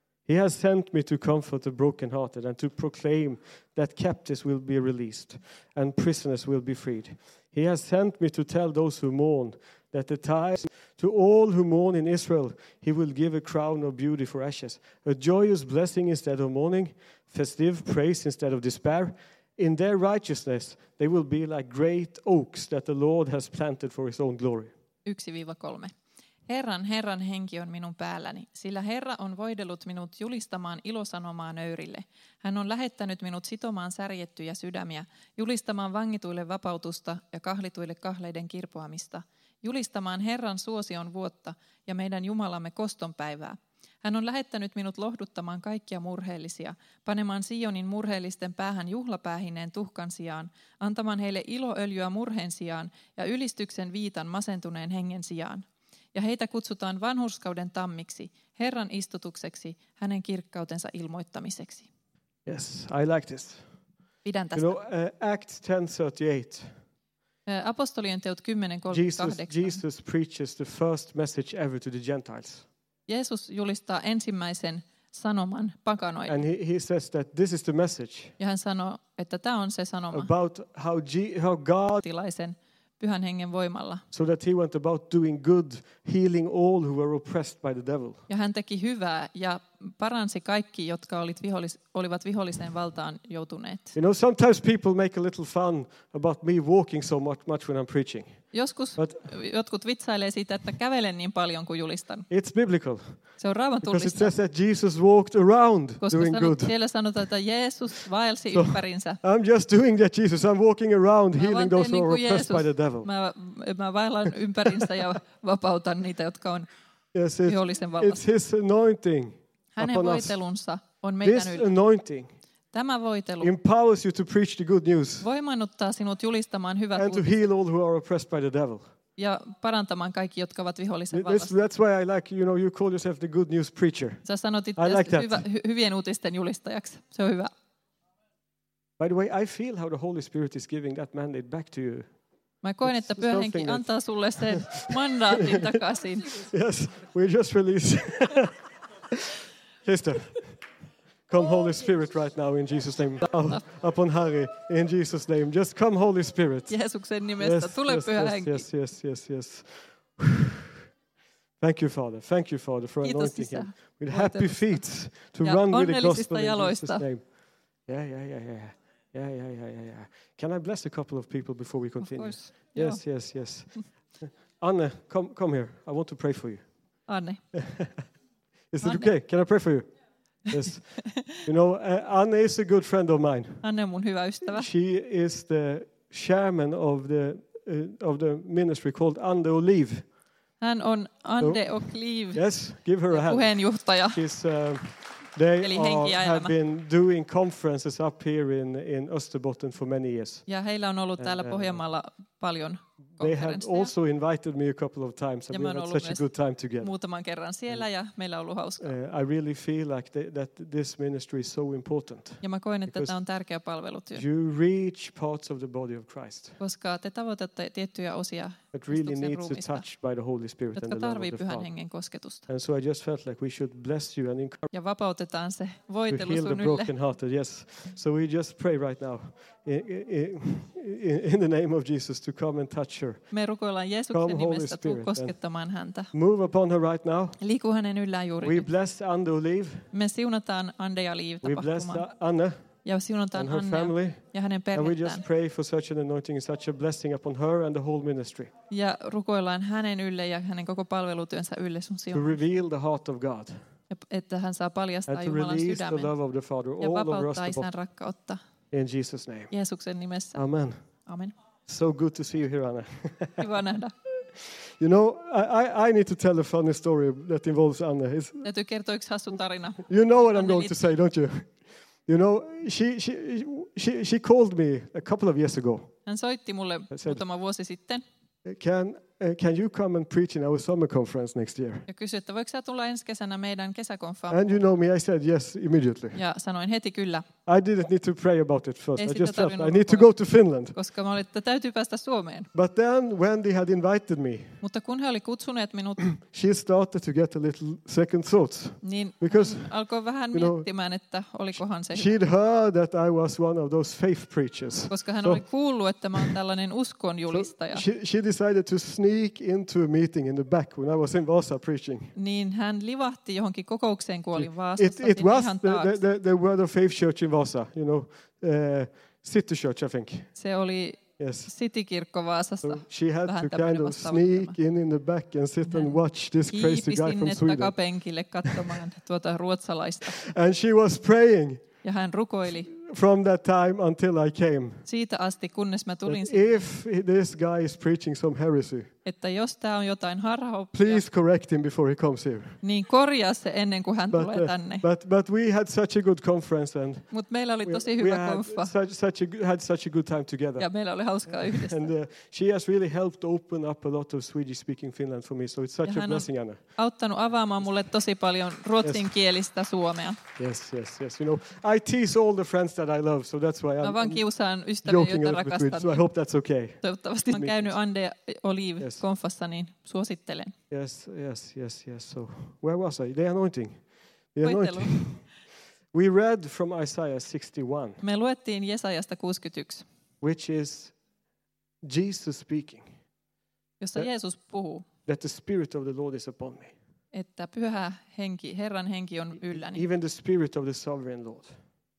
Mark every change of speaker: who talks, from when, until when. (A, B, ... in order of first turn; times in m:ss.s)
0:00.2-0:24.7 A
0:25.0-0:25.9 B
0:26.5-1:01.9 B
1:02.4-1:03.6 A
1:04.2-1:04.8 B
1:04.5-1:06.7 A
1:07.4-1:09.8 B
1:08.9-1:12.6 A
1:13.1-1:16.4 B
1:16.3-1:18.3 A
1:18.4-1:20.3 B
1:20.1-1:22.0 A
1:22.0-1:24.0 B
1:24.1-1:28.2 A
1:28.3-1:33.9 B
1:33.9-1:39.2 A
1:38.5-1:42.3 B
1:42.3-1:43.2 A
1:43.4-1:44.3 B
1:43.8-1:46.7 A
1:46.0-1:49.2 B
1:48.5-1:53.1 A
1:51.4-1:56.7 B
1:57.1-2:00.4 A
1:57.4-1:58.2 B
1:59.8-2:01.7 B
2:01.2-2:02.3 A
2:02.7-2:03.5 B
2:03.4-2:05.3 A
2:05.2-2:07.2 B
2:06.9-2:08.8 A
2:09.2-2:11.6 B
2:11.1-2:14.2 A
2:14.2-2:17.5 B
2:14.8-2:15.4 A
2:19.0-2:22.1 A
2:22.6-2:26.3 B
2:22.8-2:29.2 A
2:29.8-2:30.6 A
2:31.3-2:36.8 A
2:36.7-2:38.6 B
2:37.4-2:40.8 A
2:41.6-2:47.2 A
2:43.0-2:44.8 B
2:45.4-2:47.0 B
2:47.8-2:56.6 A
2:52.0-2:53.0 B
2:57.1-2:57.4 B
2:57.5-2:58.0 A
2:58.7-2:59.9 A
2:58.8-2:59.1 B
3:00.5-3:03.6 A
3:01.2-3:01.4 B
3:03.6-3:04.7 B
3:04.4-3:10.0 A
3:10.6-3:12.4 B
3:11.4-3:13.5 A
3:13.1-3:14.2 B
3:14.1-3:20.4 A
3:15.6-3:16.5 B
3:20.5-3:23.9 B
3:21.2-3:21.8 A
3:23.2-3:26.9 A
3:25.5-3:26.3 B
3:26.8-3:28.9 B
3:28.8-3:33.1 A
3:32.4-3:34.2 B
3:34.1-3:36.6 A
3:36.6-3:39.8 B
3:38.7-3:41.7 A
3:40.8-3:42.4 B
3:42.5-3:44.7 A
3:44.7-3:46.9 B
3:46.1-3:53.2 A
3:53.3-3:56.1 B
3:54.1-3:55.4 A
3:56.1-3:57.4 A
3:57.4-3:58.7 B
3:58.4-3:59.9 A
3:59.9-4:02.0 B
4:01.4-4:02.6 A
4:02.8-4:05.2 B
4:03.3-4:04.2 A
4:04.7-4:08.5 A
4:08.7-4:12.4 B
4:12.1-4:13.6 A
4:13.9-4:16.1 B
4:15.1-4:17.7 A
4:16.8-4:18.4 B
4:18.7-4:19.5 A
4:19.5-4:20.4 B
4:20.3-4:20.8 A
4:21.0-4:21.3 B
4:21.6-4:23.4 A
4:23.4-4:23.9 B
4:24.3-4:28.5 A
4:28.4-4:30.8 B
4:29.8-4:31.5 A
4:32.1-4:35.9 A
4:36.0-4:38.0 B
4:36.9-4:37.2 A
4:38.4-4:41.8 A
4:41.9-4:44.6 B
4:44.3-4:46.2 A
4:46.1-4:47.2 B
4:47.4-4:50.7 A
4:49.0-4:50.1 B
4:50.7-4:52.5 B
4:52.5-4:54.6 A
4:54.6-4:56.1 B
4:56.0-4:59.7 A
4:58.8-5:02.1 B
5:00.3-5:00.7 A
5:01.9-5:05.4 A
5:04.9-5:07.8 B
5:07.3-5:12.1 A
5:12.1-5:16.0 B
5:14.4-5:20.3 A
5:20.3-5:24.5 B
5:21.2-5:21.5 A
5:22.6-5:27.7 A
5:25.6-5:25.9 B
5:26.5-5:30.2 B
5:30.2-5:31.6 A
5:31.8-5:32.7 B
5:32.7-5:34.8 A
5:34.8-5:36.6 B
5:36.0-5:38.9 A
5:39.0-5:41.0 B
5:40.7-5:42.6 A
5:42.6-5:44.8 B
5:44.1-5:47.1 A
5:47.1-5:48.7 B
5:47.6-5:50.7 A
5:50.6-5:51.9 B
5:51.3-5:56.6 A
5:55.8-6:00.2 B
5:58.8-5:59.1 A
6:00.4-6:04.2 A
6:03.8-6:06.1 B
6:04.8-6:07.7 A
6:06.8-6:10.5 B
6:10.7-6:15.3 A
6:14.4-6:15.1 B
6:15.9-6:18.0 A
6:18.0-6:19.8 B
6:20.2-6:20.9 A
6:21.8-6:22.9 A
6:23.8-6:24.8 B
6:25.0-6:26.7 A
6:27.1-6:29.8 B
6:29.5-6:31.5 A